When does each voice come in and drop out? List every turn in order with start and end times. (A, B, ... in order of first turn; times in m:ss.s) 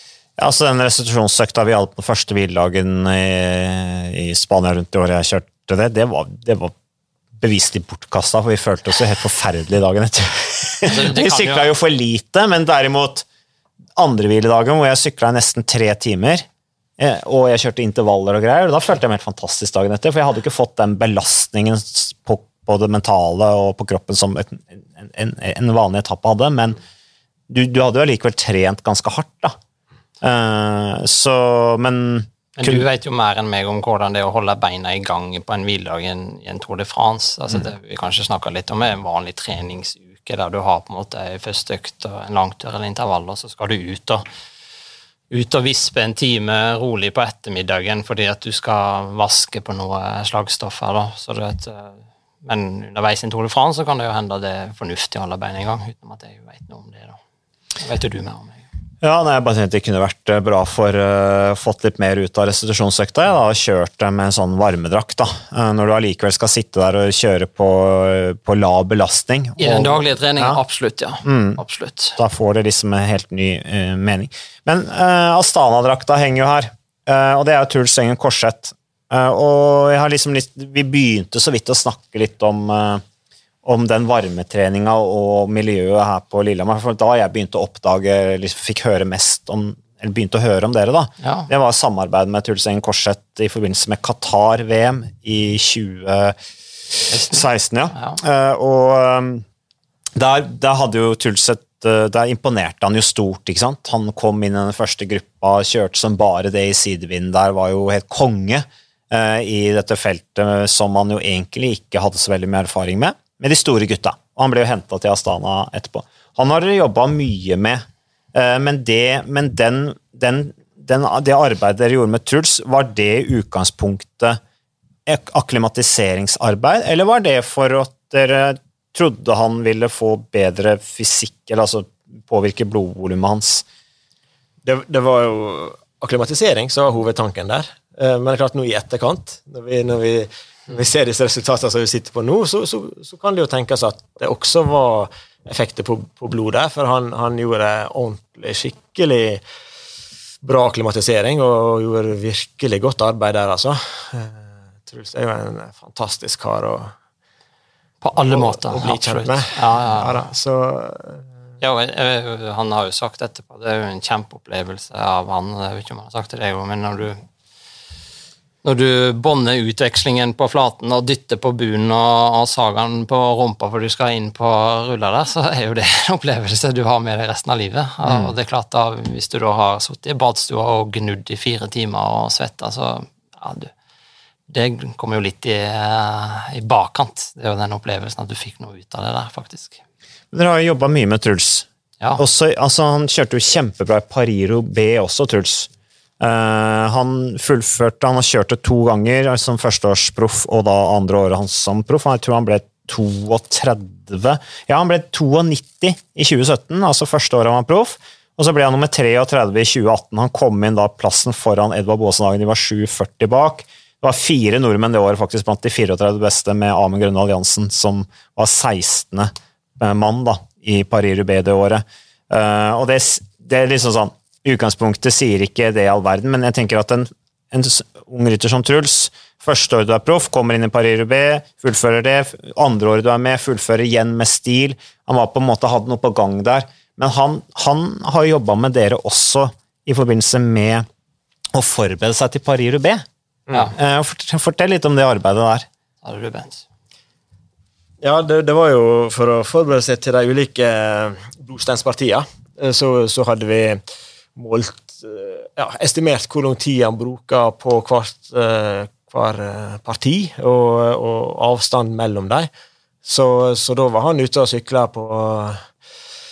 0:00.4-0:06.7 A
0:07.4-0:13.3 A
0:10.8-0:11.7 B
0:14.0-0:16.5 A
0:17.0-0:26.8 A
0:27.5-0:29.6 A
0:30.2-0:32.9 A
0:32.6-0:44.2 B
0:45.3-0:57.2 B
0:57.8-0:58.6 B
0:59.0-1:10.6 A
1:09.6-1:12.2 B
1:11.2-1:11.6 A
1:12.2-1:23.0 A
1:23.6-1:36.4 A
1:31.2-1:31.5 B
1:36.9-1:39.5 A
1:37.1-1:37.4 B
1:40.2-2:04.4 A
2:05.1-2:13.6 A
2:14.6-2:29.4 C
2:30.4-2:36.9 C
2:38.0-2:40.2 B
2:38.3-2:41.2 C
2:41.6-2:47.2 B
2:48.6-3:03.7 B
2:58.0-2:58.3 A
3:04.5-3:09.8 B
3:10.3-4:00.9 A
4:01.5-4:03.0 A
4:03.5-4:03.7 C
4:03.7-4:05.7 A
4:06.0-4:06.6 B
4:08.0-4:13.8 C
4:14.4-4:22.5 C
4:23.0-4:25.6 C